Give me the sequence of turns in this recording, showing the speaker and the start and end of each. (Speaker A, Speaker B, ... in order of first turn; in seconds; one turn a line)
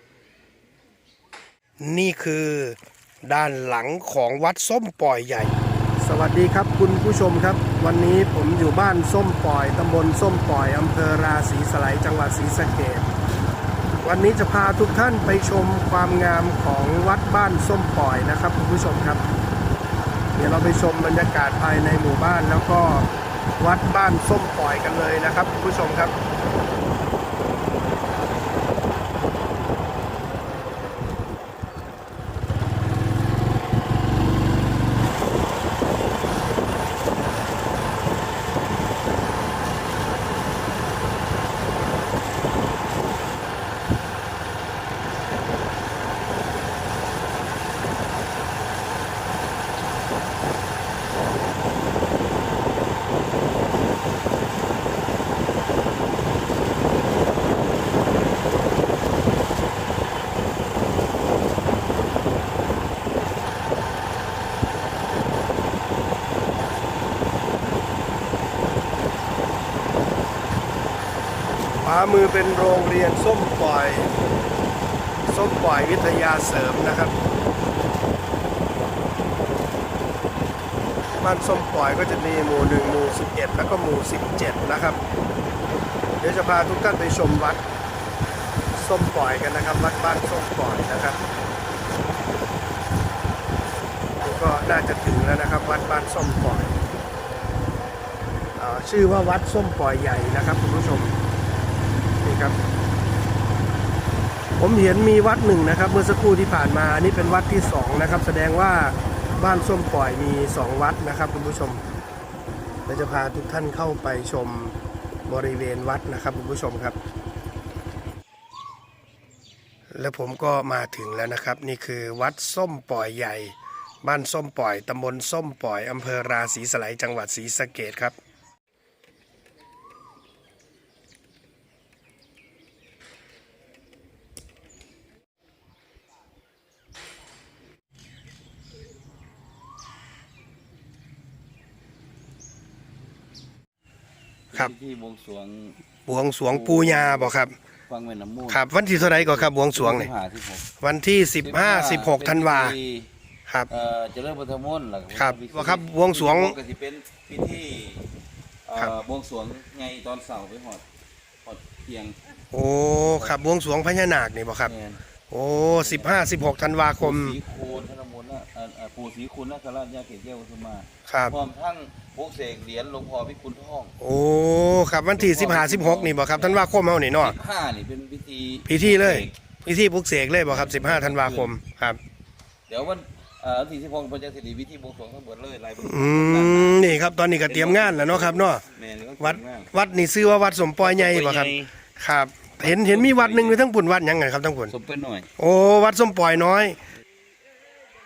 Speaker A: 1.8-13.1
Speaker A: 14.0-19.2
Speaker A: 20.4-26.1
Speaker A: 71.8-74.1
Speaker A: 75.3-77.2
Speaker A: 81.2-85.0
Speaker A: 86.2-87.6
Speaker A: 88.7-91.2
Speaker A: 94.2-96.8
Speaker A: 98.6-101.2
Speaker A: 102.2-102.6
Speaker A: 104.6-111.8
Speaker A: 112.9-114.8
Speaker A: 115.3-117.0
Speaker A: 119.9-128.2
Speaker B: 144.5-145.8
Speaker A: 146.1-147.5
Speaker B: 146.5-147.4
Speaker B: 147.9-150.7
Speaker A: 148.5-150.1
Speaker A: 150.8-152.8
Speaker B: 151.4-153.1
Speaker B: 153.7-158.1
Speaker A: 155.1-156.6
Speaker B: 158.7-160.8
Speaker B: 161.4-162.2
Speaker A: 162.5-164.7
Speaker B: 163.1-163.4
Speaker B: 164.7-165.0
Speaker A: 165.3-167.4
Speaker B: 165.7-166.2
Speaker B: 167.0-173.9
Speaker A: 171.1-171.4
Speaker A: 174.0-177.4
Speaker B: 175.2-176.7
Speaker B: 177.2-179.3
Speaker A: 178.7-182.0
Speaker B: 180.5-181.5
Speaker B: 182.7-189.7
Speaker A: 185.8-188.6
Speaker A: 189.2-194.7
Speaker B: 190.8-191.7
Speaker B: 192.6-193.6
Speaker B: 194.7-195.3
Speaker A: 195.4-196.8